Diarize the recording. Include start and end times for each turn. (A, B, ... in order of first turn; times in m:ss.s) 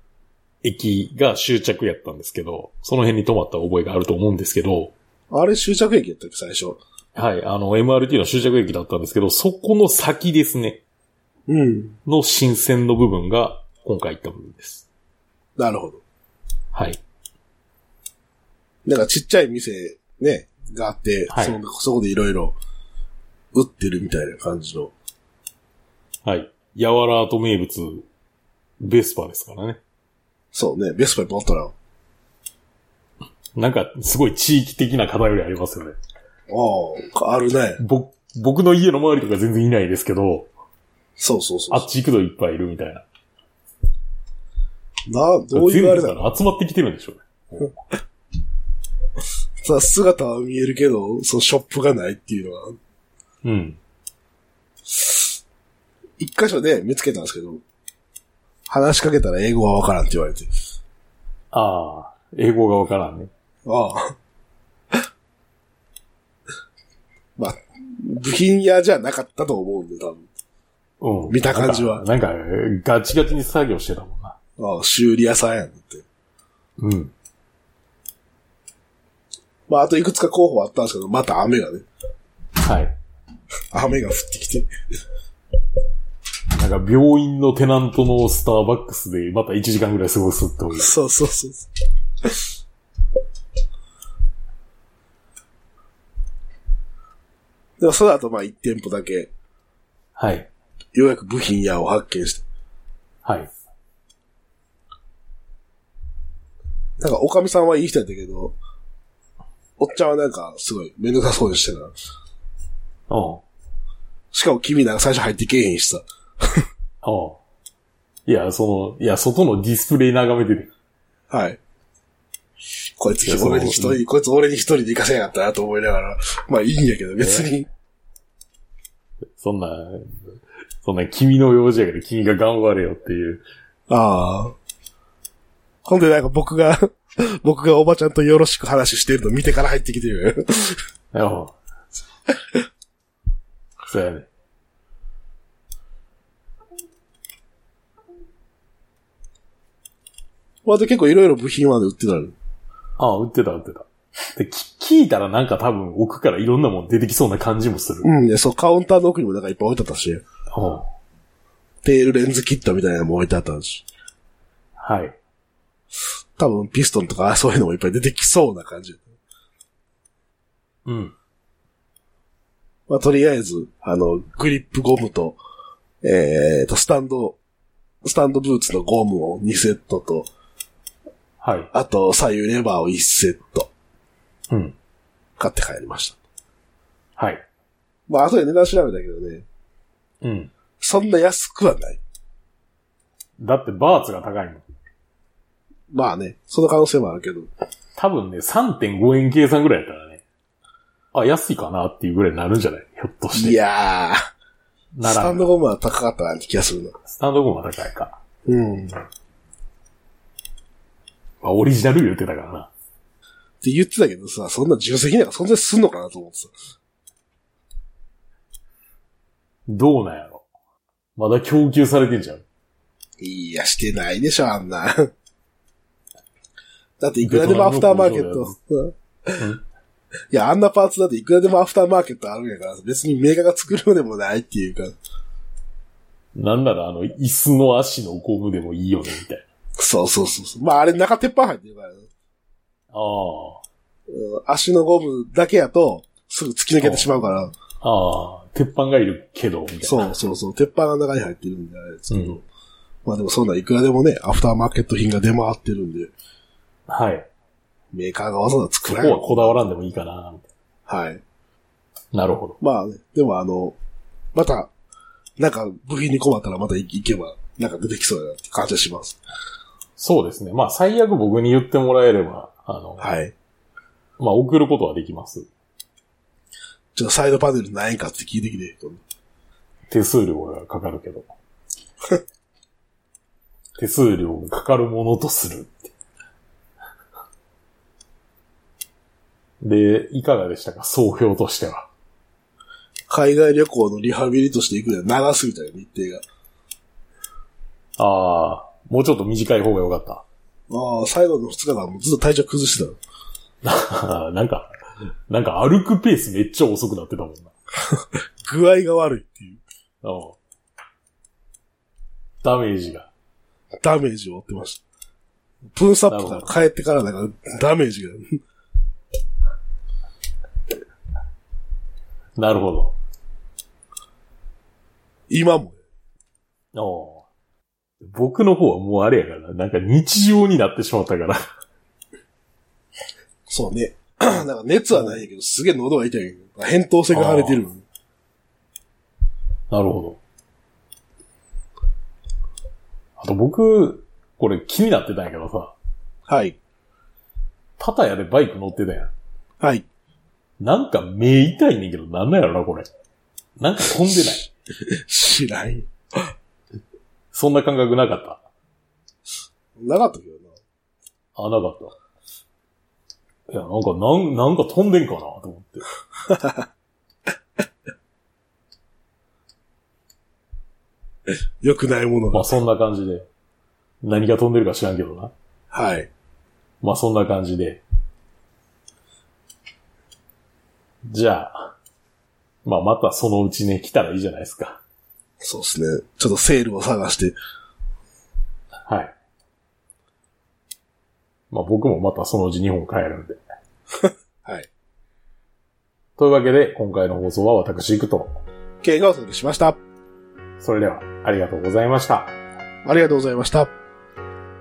0:00.6-0:04.9 A
0:05.3-0:06.8 B
0:07.2-0:10.8 A
0:11.5-0:12.0 B
0:12.1-0:14.9 A
0:15.6-0:16.0 B
0:16.7-0:17.0 A
0:18.8-0:22.6 B
0:21.3-0:21.6 A
0:23.5-0:24.9 B
0:26.2-0:28.1 A
0:28.8-0:29.8 A
0:30.5-0:31.7 B
0:33.6-0:36.0 A
0:36.5-0:37.8 B
0:37.8-0:40.5 A
0:41.2-0:41.9 B
0:41.7-0:43.0 A
0:45.1-0:46.3 B
0:45.5-0:47.2 A
0:49.6-0:52.8 B
0:53.4-0:53.8 A
0:54.9-0:55.3 B
0:56.2-0:57.6 B
0:58.7-1:00.5 B
1:01.5-1:03.3 A
1:03.6-1:04.2 B
1:07.4-1:10.3 B
1:11.0-1:14.4 A
1:11.3-1:12.0 B
1:14.6-1:16.0 B
1:16.8-1:17.1 A
1:19.7-1:21.9 B
1:22.6-1:23.0 A
1:23.7-1:24.7 B
1:26.5-1:30.9 A
1:30.8-1:31.7 B
1:37.8-1:39.3 B
1:40.2-1:40.5 A
1:40.9-1:42.4 B
1:43.2-1:43.5 A
1:47.0-1:48.6 B
1:49.8-1:52.0 B
1:53.1-1:53.4 A
1:54.3-1:56.7 B
1:57.0-1:57.4 A
1:58.3-2:00.7 A
2:01.3-2:01.6 B
2:03.0-2:07.7 B
2:03.2-2:04.0 A
2:07.2-2:07.5 A
2:09.4-2:10.3 A
2:10.8-2:13.4 A
2:13.9-2:14.6 B
2:15.8-2:20.8 B
2:21.1-2:21.6 A
2:23.9-2:24.3 A
2:30.6-2:32.4 B
2:33.0-2:38.1 A
2:38.0-2:40.2 B
2:40.5-2:40.9 A
2:41.8-2:43.9 B
2:44.8-2:45.2 A
2:46.4-2:49.1 B
2:50.9-2:51.2 A
2:52.9-2:55.4 B
2:56.0-2:57.4 B
2:58.0-3:00.3 B
3:01.4-3:01.7 A
3:01.7-3:03.7 B
3:04.5-3:04.8 A
3:05.4-3:06.2 B
3:07.2-3:07.4 A
3:08.1-3:09.5 B
3:10.2-3:10.5 A
3:10.8-3:12.0 B
3:13.4-3:14.6 A
3:15.9-3:17.5 B
3:18.0-3:20.2 A
3:21.1-3:23.6 A
3:23.3-3:24.3 B
3:24.9-3:25.5 A
3:25.0-3:27.0 B
3:27.1-3:28.2 A
3:28.5-3:29.0 B
3:31.4-3:32.7 A
3:33.6-3:36.5 B
3:39.7-3:40.4 A
3:41.2-3:42.4 A
3:43.2-3:45.1 B
3:47.0-3:49.4 B
3:47.2-3:48.6 A
3:49.4-3:49.6 A
3:50.3-3:55.0 B
3:56.4-3:59.4 A
3:59.8-4:02.1 B
4:02.9-4:03.6 A
4:04.1-4:07.6 B
4:06.8-4:07.1 A
4:07.7-4:10.1 A
4:09.8-4:12.4 B
4:12.1-4:12.4 A
4:13.0-4:16.1 B
4:16.9-4:17.3 A
4:17.9-4:19.7 B
4:18.8-4:20.5 A
4:20.9-4:21.2 B
4:22.1-4:22.6 A
4:22.6-4:23.8 B
4:24.3-4:24.7 B
4:25.4-4:29.2 B
4:30.0-4:33.1 A
4:33.0-4:33.3 B
4:34.2-4:35.5 A
4:37.0-4:39.0 B
4:39.9-4:41.3 A
4:43.8-4:45.9 A
4:49.6-4:51.9 A
4:53.1-4:56.2 B
4:58.0-5:00.2 A
5:00.7-5:03.0 B
5:03.6-5:04.7 A
5:05.3-5:07.5 A
5:07.9-5:09.6 B
5:10.0-5:10.4 A
5:12.4-5:13.1 A
5:13.8-5:14.8 B
5:15.8-5:18.4 B
5:16.1-5:16.5 A
5:22.4-5:23.0 A
5:25.3-5:25.8 B
5:26.7-5:27.2 A
5:28.0-5:31.4 A
5:33.5-5:37.8 B
5:34.9-5:35.2 A
5:37.1-5:37.6 A
5:39.7-5:40.2 A
5:43.2-5:45.8 A
5:46.3-5:46.6 B
5:47.8-5:49.1 A
5:49.6-5:49.9 B
5:50.6-5:52.9 A
5:53.6-5:54.5 A
5:54.8-5:55.9 B
5:57.3-5:58.4 A
5:59.8-6:00.5 B
6:01.4-6:02.0 A
6:03.5-6:05.9 A
6:06.3-6:06.7 B
6:11.6-6:12.5 B
6:12.3-6:13.3 A
6:14.0-6:15.3 A
6:15.7-6:16.1 B
6:16.8-6:17.8 A
6:21.0-6:21.8 A
6:22.6-6:24.8 A
6:25.4-6:27.4 B
6:28.9-6:29.1 A
6:31.5-6:33.4 A
6:34.0-6:34.7 B
6:36.2-6:38.4 A
6:38.8-6:39.8 B
6:40.6-6:42.3 A
6:42.8-6:43.7 B